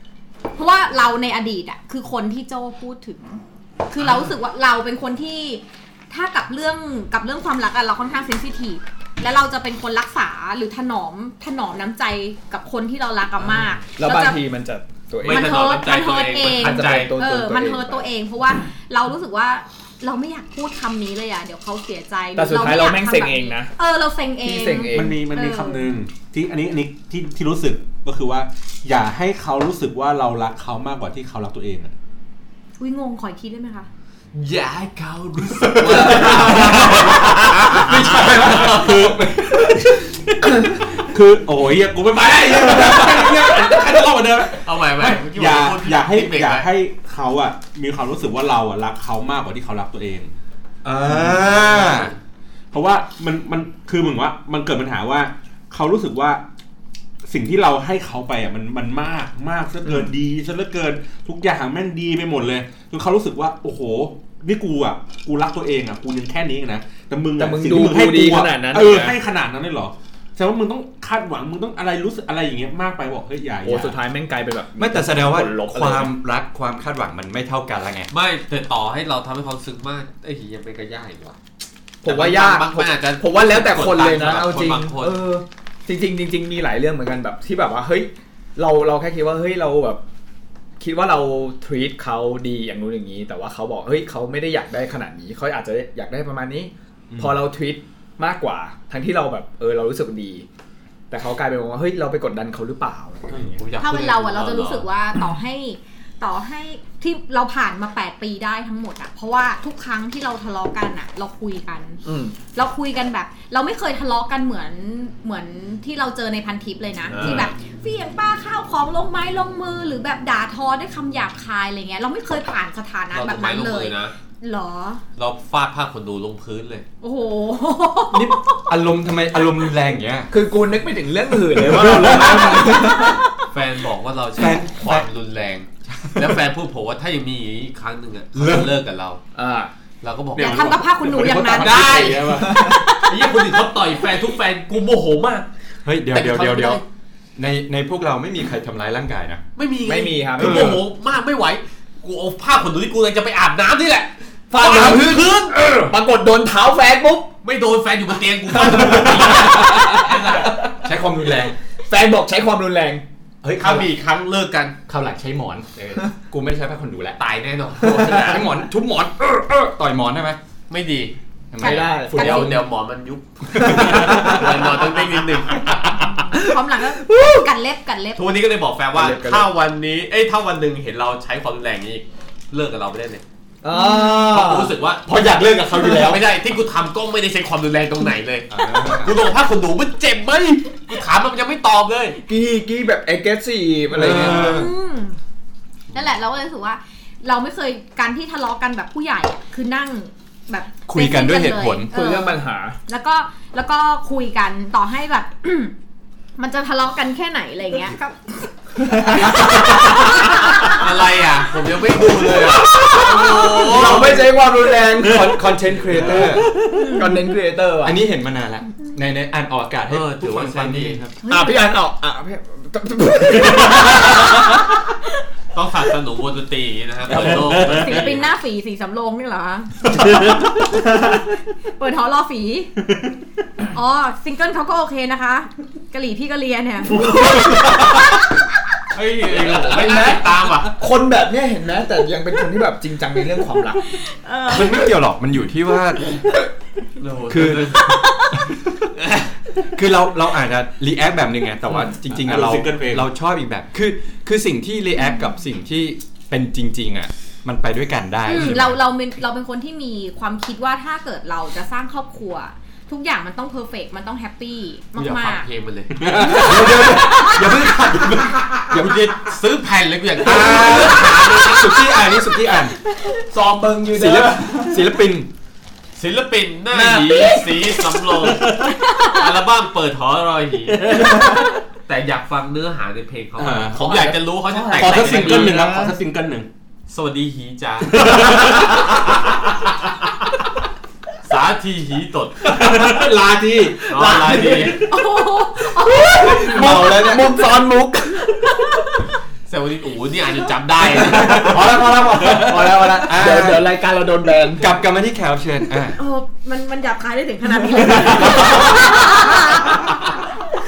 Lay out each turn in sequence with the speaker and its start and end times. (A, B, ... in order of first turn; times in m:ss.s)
0:00.6-0:14.4 A
0:14.0-0:15.8 B
0:15.2-0:17.1 C
0:15.3-0:26.0 A
0:16.4-0:18.1 B
0:22.4-0:23.7 B
0:24.4-0:25.2 B
0:24.9-0:32.0 D
0:32.8-0:33.9 A
0:34.3-0:39.0 C
0:35.8-0:37.0 E
0:36.2-0:50.3 D
0:37.9-0:39.7 E
0:44.6-0:46.7 C
0:50.8-0:52.1 E
0:51.3-0:52.2 C
0:52.7-0:56.4 D
0:57.2-1:14.0 D
0:59.8-1:00.1 B
1:07.4-1:09.2 B
1:13.6-1:16.1 B
1:14.8-1:18.1 E
1:18.1-1:21.4 C
1:22.0-1:30.0 B
1:22.0-1:25.2 C
1:30.8-1:40.5 B
1:37.1-1:37.4 D
1:41.1-1:43.6 B
1:43.6-1:44.9 C
1:43.8-1:52.0 A
1:52.0-1:52.4 B
1:52.5-2:05.0 A
1:57.1-1:57.5 C
1:57.2-1:57.5 B
2:03.1-2:04.1 C
2:05.2-2:06.9 C
2:07.0-2:08.7 A
2:08.1-2:10.3 E
2:10.3-2:13.2 B
2:11.6-2:12.9 E
2:11.8-2:12.6 D
2:12.7-2:13.2 A
2:13.5-2:19.2 C
2:14.4-2:15.1 E
2:18.4-2:18.7 E
2:19.4-2:19.7 B
2:20.0-2:20.8 C
2:20.4-2:22.7 D
2:20.4-2:23.4 A
2:21.6-2:22.8 B
2:21.6-2:22.2 C
2:23.0-2:25.5 C
2:25.8-2:26.8 E
2:26.1-2:26.8 C
2:27.4-2:29.4 E
2:29.6-2:35.8 C
2:29.8-2:30.8 B
2:30.4-2:30.8 E
2:34.5-2:37.3 B
2:37.4-2:40.7 C
2:38.6-2:40.7 B
2:40.8-2:41.6 E
2:41.8-2:43.0 B
2:43.4-2:43.9 E
2:43.6-2:44.8 C
2:44.9-2:47.2 E
2:47.2-2:48.5 C
2:47.9-2:50.4 E
2:50.7-2:51.2 C
2:51.5-2:52.6 E
2:51.6-2:52.6 B
2:51.6-2:52.5 A
2:52.0-2:56.0 C
2:53.6-2:54.4 E
2:53.6-2:54.6 B
2:55.9-2:58.2 A
2:56.3-2:57.4 B
2:58.2-3:03.2 C
2:58.9-2:59.5 B
3:03.6-3:04.8 B
3:03.7-3:04.3 A
3:04.3-3:05.1 C
3:05.1-3:06.2 E
3:05.7-3:12.2 C
3:08.5-3:09.2 E
3:12.3-3:14.7 B
3:13.9-3:14.7 E
3:14.3-3:15.2 A
3:15.9-3:25.7 A
3:20.9-3:21.9 E
3:21.9-3:22.8 B
3:26.4-3:30.8 A
3:28.8-3:30.7 B
3:30.6-3:34.2 C
3:31.9-3:38.0 B
3:33.6-3:34.3 E
3:35.0-3:36.5 E
3:35.9-3:37.0 D
3:36.7-3:37.1 A
3:37.8-3:41.1 E
3:39.9-3:41.0 C
3:41.2-3:41.6 A
3:41.3-3:44.7 B
3:45.5-3:48.3 C
3:47.2-3:48.1 D
3:47.5-3:51.1 A
3:49.9-3:50.8 D
3:51.8-3:52.7 A
3:53.7-3:58.1 A
3:57.1-3:57.8 D
3:57.3-3:57.7 B
3:58.9-4:00.8 C
3:59.4-4:04.0 B
4:03.8-4:04.9 A
4:04.5-4:06.3 E
4:07.0-4:08.0 C
4:07.3-4:08.9 E
4:07.9-4:08.4 A
4:09.7-4:18.8 E
4:12.0-4:13.1 D
4:15.0-4:15.4 A
4:18.3-4:25.5 A
4:25.0-4:26.2 C
4:26.0-4:26.8 D
4:26.2-4:27.5 A
4:26.2-4:28.9 E
4:28.4-4:29.0 B
4:28.7-4:32.0 C
4:30.2-4:32.8 E
4:33.1-4:34.9 B
4:33.9-4:35.3 E
4:36.0-4:41.1 C
4:36.7-4:37.7 B
4:38.4-4:38.7 D
4:38.6-4:39.2 A
4:40.7-4:41.5 D
4:41.9-4:45.6 C
4:43.4-4:43.8 D
4:43.8-4:46.0 B
4:44.8-4:46.5 D
4:46.9-4:49.0 C
4:47.9-4:48.9 D
4:51.2-4:52.6 C
4:52.4-4:54.9 D
4:53.9-4:54.8 C
4:54.0-4:54.8 B
4:54.8-4:56.9 A
4:55.8-4:59.0 B
4:56.4-4:57.4 E
4:58.4-4:58.9 A
4:59.5-5:01.6 C
5:01.0-5:04.7 B
5:01.0-5:03.7 E
5:01.7-5:02.5 D
5:04.5-5:06.0 E
5:06.0-5:10.2 A
5:07.8-5:09.9 B